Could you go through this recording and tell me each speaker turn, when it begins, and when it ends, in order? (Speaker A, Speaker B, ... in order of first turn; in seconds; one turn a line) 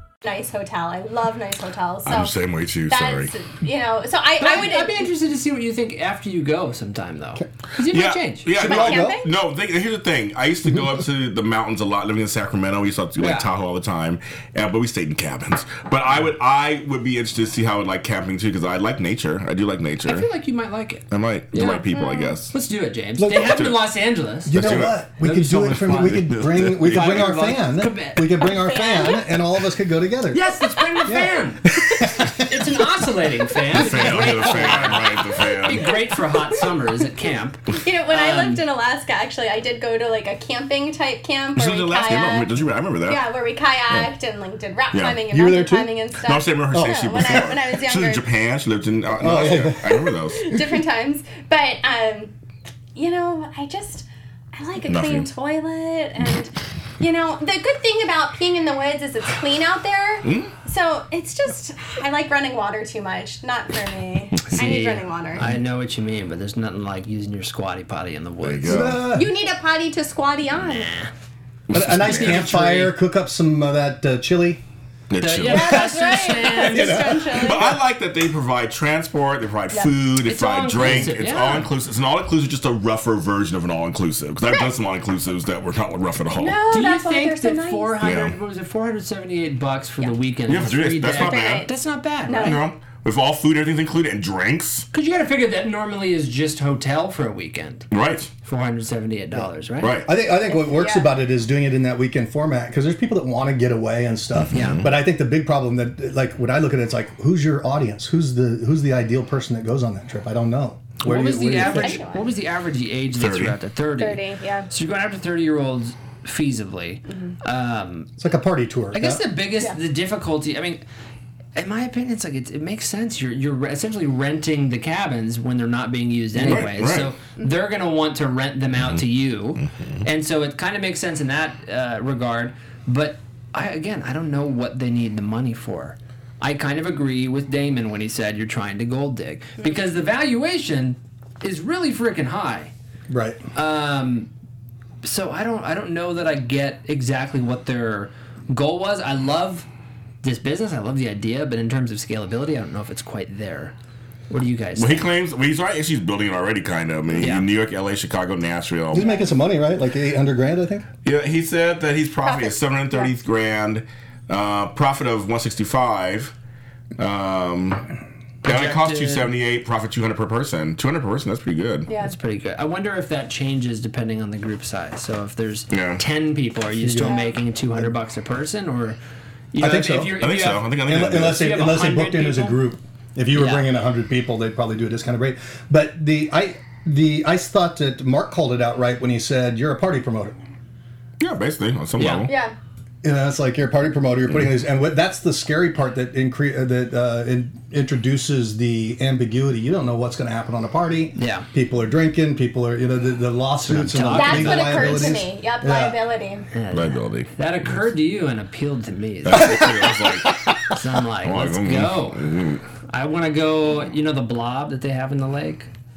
Speaker A: 0.2-2.3
Speaker B: 2.0-3.3
Speaker A: 2.9-5.1
Speaker C: 4.4-8.5
Speaker B: 7.9-20.3
Speaker D: 8.5-9.2
Speaker A: 8.6-9.3
Speaker C: 13.2-13.5
Speaker C: 20.0-21.8
Speaker B: 21.1-22.5
Speaker A: 21.9-22.4
Speaker C: 22.5-26.2
Speaker D: 23.2-23.6
Speaker B: 23.3-23.8
Speaker D: 24.5-30.4
Speaker B: 24.5-27.3
Speaker C: 26.8-28.5
Speaker A: 28.5-29.2
Speaker C: 30.3-31.7
Speaker D: 31.0-32.5
Speaker C: 32.4-38.6
Speaker B: 33.7-36.0
Speaker D: 34.0-34.3
Speaker A: 37.7-42.5
Speaker B: 41.5-43.2
Speaker A: 43.1-48.2
Speaker B: 44.9-45.2
Speaker D: 45.3-45.9
Speaker B: 46.2-50.6
Speaker D: 46.7-47.5
Speaker D: 49.2-50.5
Speaker A: 50.3-52.4
Speaker A: 52.9-65.5
Speaker B: 54.9-55.2
Speaker B: 60.2-60.5
Speaker C: 64.5-69.0
Speaker B: 68.4-69.1
Speaker D: 68.6-69.3
Speaker A: 69.1-70.9
Speaker C: 70.6-71.1
Speaker B: 71.7-72.5
Speaker D: 71.7-74.6
Speaker C: 72.0-72.9
Speaker B: 75.1-75.8
Speaker C: 75.2-77.1
Speaker A: 75.4-77.8
Speaker D: 75.5-77.7
Speaker B: 77.3-86.6
Speaker C: 80.2-81.7
Speaker A: 84.5-84.7
Speaker A: 86.3-88.0
Speaker C: 86.7-92.6
Speaker B: 88.0-88.3
Speaker B: 90.5-91.7
Speaker A: 91.1-91.7
Speaker A: 92.3-92.6
Speaker B: 92.3-94.9
Speaker C: 94.9-97.9
Speaker B: 97.9-98.3
Speaker C: 98.4-100.0
Speaker B: 99.8-100.1
Speaker D: 100.0-112.0
Speaker A: 100.3-101.1
Speaker B: 104.4-104.9
Speaker C: 104.5-104.8
Speaker C: 111.0-118.1
Speaker A: 111.6-112.3
Speaker B: 113.1-113.5
Speaker A: 114.0-114.7
Speaker A: 117.1-117.3
Speaker D: 118.2-119.2
Speaker C: 118.9-120.8
Speaker C: 121.5-142.7
Speaker B: 126.3-127.1
Speaker B: 129.6-130.0
Speaker D: 143.1-143.4
Speaker C: 143.5-144.3
Speaker C: 145.0-149.7
Speaker C: 150.2-153.7
Speaker C: 154.3-155.1
Speaker B: 154.8-159.1
Speaker C: 157.2-157.5
Speaker D: 158.9-160.9
Speaker A: 158.9-159.3
Speaker B: 161.0-166.3
Speaker A: 162.2-163.1
Speaker B: 167.0-167.9
Speaker B: 168.4-171.9
Speaker C: 168.4-169.3
Speaker A: 171.9-172.1
Speaker C: 172.0-179.0
Speaker B: 175.7-176.0
Speaker D: 176.8-177.9
Speaker A: 177.0-177.3
Speaker C: 179.5-182.6
Speaker D: 179.6-180.2
Speaker B: 180.2-181.5
Speaker D: 180.8-190.3
Speaker C: 183.3-183.7
Speaker B: 191.2-192.3
Speaker C: 192.0-192.3
Speaker A: 192.3-192.5
Speaker D: 193.0-206.0
Speaker C: 201.2-201.5
Speaker C: 203.6-205.2
Speaker A: 204.0-206.5
Speaker C: 206.5-209.6
Speaker B: 206.7-207.3
Speaker B: 209.2-210.3
Speaker D: 209.4-210.6
Speaker C: 210.7-212.2
Speaker B: 211.2-212.6
Speaker C: 212.9-215.7